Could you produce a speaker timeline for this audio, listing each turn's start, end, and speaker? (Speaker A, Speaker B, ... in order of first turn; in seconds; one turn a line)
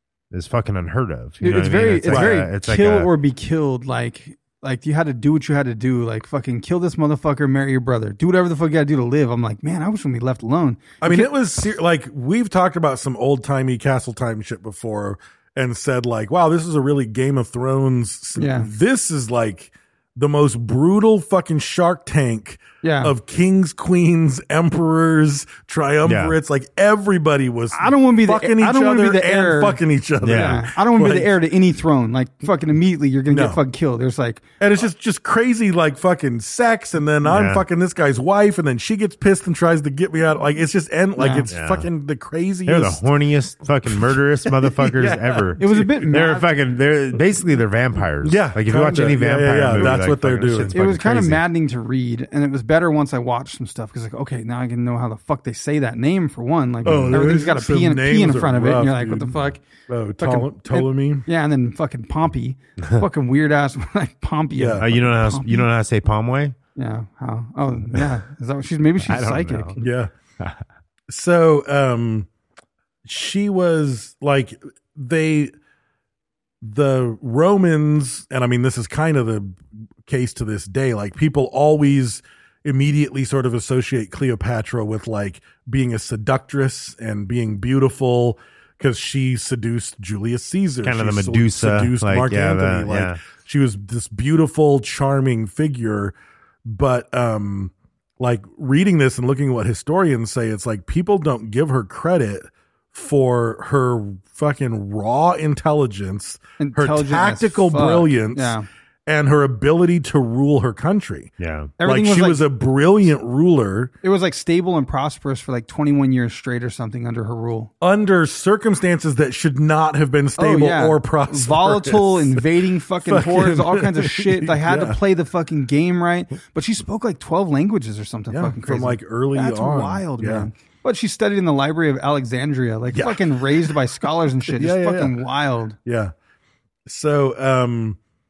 Speaker A: 0.3-3.1
Speaker B: 1.4-11.3
Speaker C: 2.1-2.4
Speaker C: 11.0-31.4
Speaker B: 18.4-18.7
Speaker B: 22.8-23.1
Speaker A: 26.1-26.4
Speaker B: 27.7-34.4
Speaker A: 30.2-30.7
Speaker C: 33.3-33.6
Speaker C: 34.6-43.0
Speaker A: 37.2-37.6
Speaker B: 41.2-41.5
Speaker A: 41.5-41.9
Speaker A: 42.6-51.4
Speaker C: 43.9-46.1
Speaker B: 45.6-46.5
Speaker C: 48.2-50.8
Speaker B: 50.7-59.6
Speaker C: 56.8-61.3
Speaker A: 56.9-57.1
Speaker B: 60.2-65.7
Speaker C: 64.5-64.9
Speaker A: 64.8-66.5
Speaker B: 66.8-69.8
Speaker A: 69.0-69.8
Speaker C: 69.8-70.1
Speaker C: 71.1-72.3
Speaker C: 73.0-75.5
Speaker C: 76.6-108.5
Speaker A: 90.8-93.2
Speaker B: 106.6-108.7
Speaker C: 109.1-113.9
Speaker A: 111.4-111.7
Speaker B: 111.8-112.4
Speaker B: 114.0-117.7
Speaker C: 117.8-122.4
Speaker B: 120.4-135.8
Speaker C: 123.0-125.0
Speaker C: 128.3-130.5
Speaker C: 132.9-133.7
Speaker C: 134.5-135.2
Speaker C: 135.8-136.1
Speaker C: 136.8-138.0